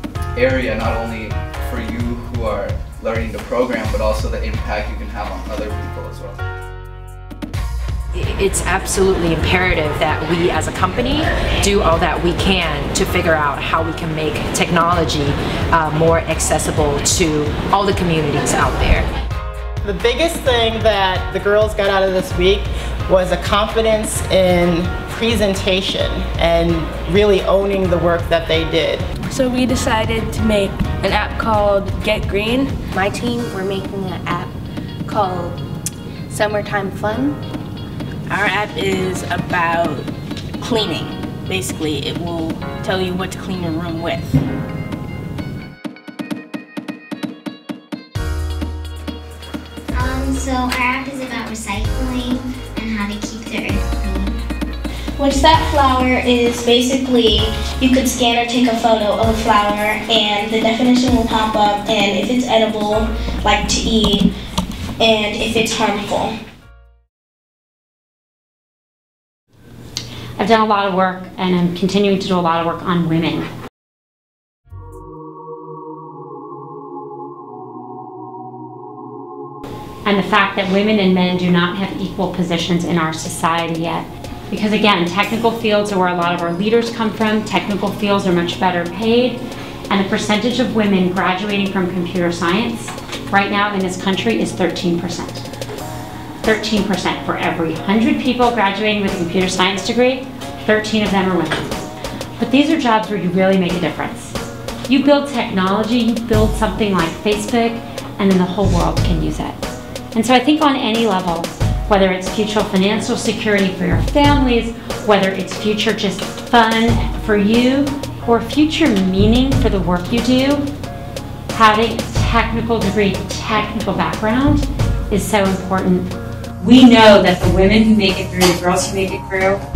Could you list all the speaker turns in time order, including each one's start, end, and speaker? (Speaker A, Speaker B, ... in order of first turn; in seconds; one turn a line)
Speaker A: 0.4-6.4
Speaker B: 8.1-19.1
Speaker C: 19.8-29.0
Speaker D: 29.3-32.9
Speaker E: 33.0-34.5
Speaker E: 35.1-35.5
Speaker E: 36.3-37.3
Speaker F: 38.3-40.1
Speaker F: 40.6-44.4
Speaker G: 50.6-51.0
Speaker G: 51.7-53.7
Speaker H: 55.2-64.3
Speaker H: 65.0-66.3
Speaker I: 70.4-73.5
Speaker I: 80.0-95.4
Speaker I: 96.4-104.4
Speaker I: 104.9-109.6
Speaker I: 110.1-120.7
Speaker I: 121.5-129.6